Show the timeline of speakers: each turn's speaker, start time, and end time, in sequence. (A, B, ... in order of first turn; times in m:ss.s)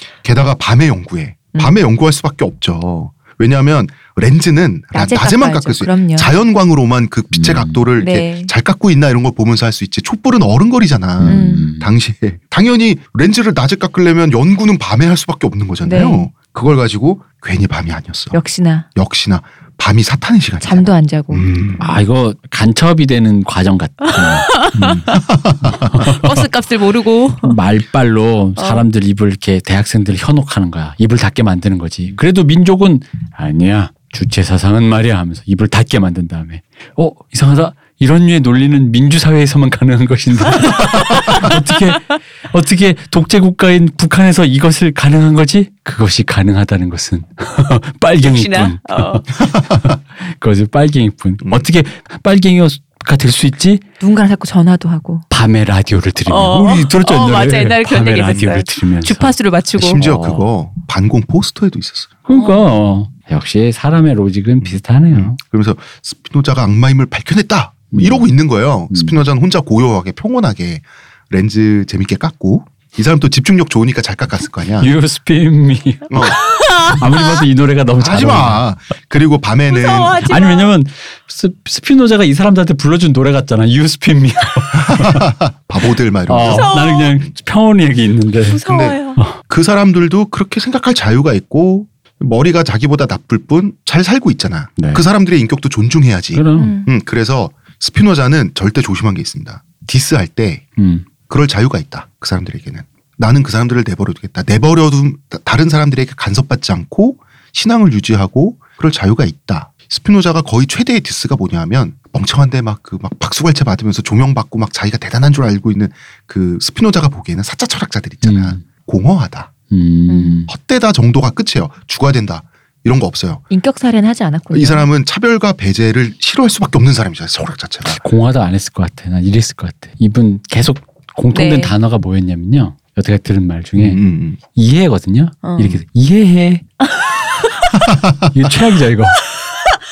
0:00.2-0:18.4 A
0:04.9-0:06.3 B
0:07.3-0:07.8 C
0:08.0-0:08.5 B
0:11.2-0:11.9 C
0:11.2-0:11.7 B
0:15.8-0:16.3 B
0:18.3-0:18.9 B
0:18.9-0:21.8 A
0:20.6-0:21.5 B
0:21.8-0:25.1 C
0:24.1-0:25.0 B
0:24.8-0:25.8 A
0:25.6-0:26.4 C
0:26.0-0:27.6 B
0:27.4-0:53.8 C
0:28.6-0:28.8 B
0:48.2-0:49.2 B
0:49.4-0:49.8 A
0:51.4-0:51.7 A
0:54.0-0:55.2 B
0:55.3-0:59.3 C
0:56.3-1:00.0 B
0:59.8-1:02.1 A
1:00.0-1:00.4 C
1:02.2-1:05.4 C
1:02.3-1:02.6 B
1:04.6-1:14.9 A
1:07.9-1:08.2 C
1:08.9-1:09.2 C
1:14.8-1:18.6 C
1:16.1-1:16.4 A
1:16.4-1:17.3 B
1:18.0-1:20.3 A
1:19.7-1:20.7 B
1:20.2-1:25.3 C
1:24.8-1:26.7 A
1:26.3-1:28.6 C
1:26.4-1:27.1 B
1:28.5-1:29.2 B
1:28.6-1:40.7 A
1:34.8-1:35.1 C
1:36.3-1:36.7 C
1:36.6-1:36.9 B
1:40.8-1:41.0 C
1:41.3-1:59.5 A
1:58.2-1:58.6 C
1:59.7-2:00.5 C
2:00.1-2:00.4 B
2:00.5-2:03.4 A
2:03.5-2:04.9 B
2:04.5-2:08.0 A
2:07.8-2:16.6 C
2:11.3-2:11.7 B
2:13.8-2:14.4 A
2:15.4-2:15.8 B
2:16.8-2:17.7 B
2:17.9-2:18.3 A
2:18.3-2:19.2 C
2:19.4-2:19.8 B